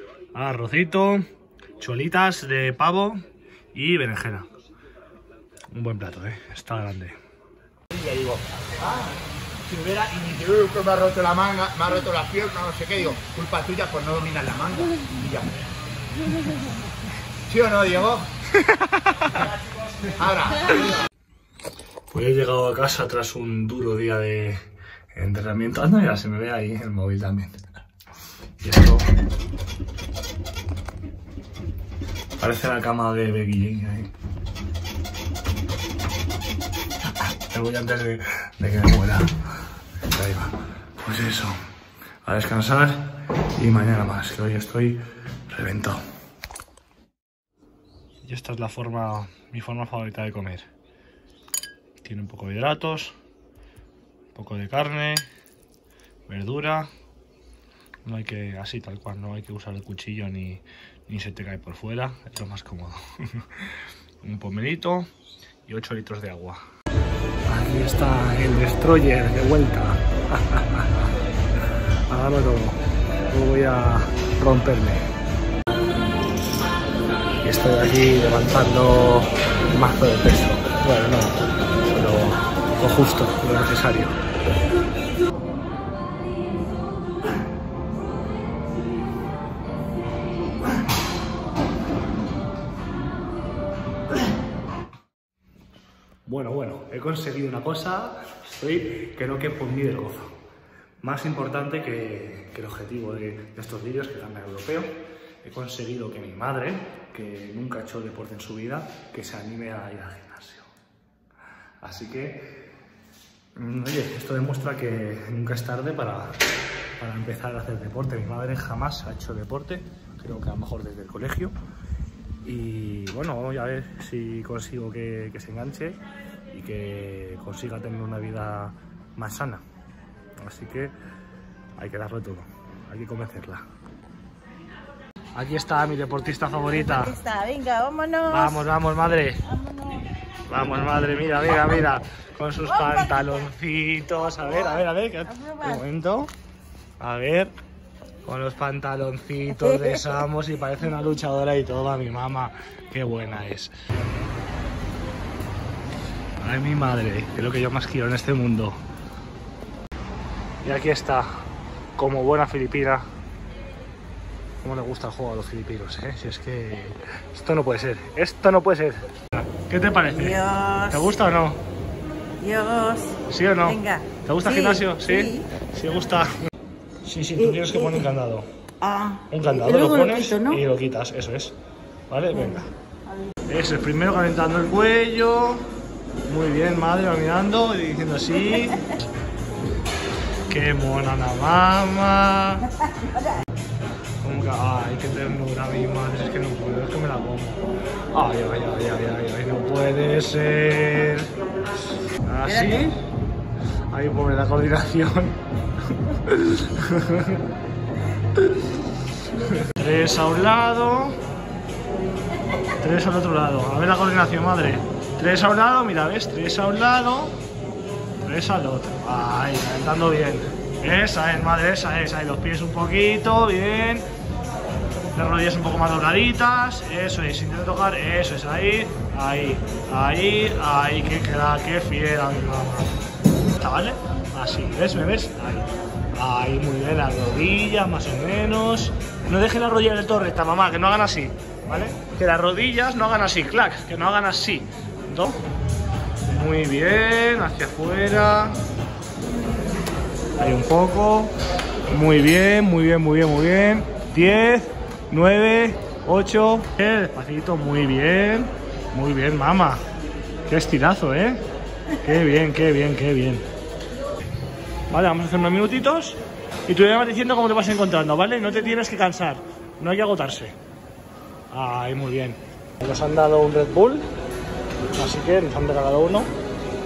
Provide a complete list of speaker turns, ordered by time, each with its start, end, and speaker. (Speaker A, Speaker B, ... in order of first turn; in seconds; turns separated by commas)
Speaker A: 0.3-1.2, Speaker A: 1.8-4.5, Speaker A: 5.7-7.2, Speaker B: 7.9-9.1, Speaker B: 9.6-15.6, Speaker B: 17.5-18.3, Speaker B: 20.1-20.9, Speaker A: 22.1-27.6, Speaker A: 28.6-29.1, Speaker A: 32.4-34.1, Speaker A: 37.5-39.3, Speaker A: 40.1-41.6, Speaker A: 42.2-46.0, Speaker A: 48.2-50.6, Speaker A: 52.0-53.1, Speaker A: 54.3-55.2, Speaker A: 56.3-56.9, Speaker A: 58.0-63.6, Speaker A: 64.2-65.1, Speaker A: 65.7-66.6, Speaker A: 67.5-71.0, Speaker A: 72.1-72.8, Speaker A: 73.3-75.1, Speaker A: 77.4-84.2, Speaker A: 96.2-100.3, Speaker A: 101.0-104.9, Speaker A: 105.4-110.7, Speaker A: 111.8-112.5, Speaker A: 113.5-116.4, Speaker A: 117.0-121.5, Speaker A: 122.4-126.0, Speaker A: 126.5-129.6, Speaker A: 130.4-130.9, Speaker A: 131.8-133.6, Speaker A: 135.3-137.2, Speaker C: 136.9-138.5, Speaker A: 138.3-139.4, Speaker A: 140.5-146.3, Speaker C: 145.3-145.8, Speaker A: 147.0-147.5, Speaker A: 148.2-153.8, Speaker A: 156.4-158.8, Speaker A: 160.6-161.4, Speaker A: 162.0-163.1, Speaker A: 164.6-171.6, Speaker C: 170.1-171.0, Speaker C: 172.4-173.2, Speaker A: 173.3-176.3, Speaker C: 173.7-175.4, Speaker A: 177.0-178.5, Speaker C: 178.8-180.6, Speaker A: 179.3-181.5, Speaker A: 182.1-182.7, Speaker A: 183.5-185.7, Speaker A: 186.3-188.8, Speaker A: 190.5-192.7, Speaker A: 194.2-201.3, Speaker A: 202.2-203.0, Speaker A: 203.9-205.4, Speaker A: 206.1-207.4, Speaker A: 209.4-211.2, Speaker A: 212.8-217.3, Speaker A: 218.2-224.1, Speaker A: 225.1-232.9, Speaker A: 233.6-245.4, Speaker A: 246.3-248.6, Speaker A: 250.4-251.3, Speaker A: 251.9-259.8, Speaker A: 260.5-261.4, Speaker A: 262.0-263.4, Speaker A: 264.9-270.5, Speaker A: 271.5-274.1, Speaker A: 274.9-276.3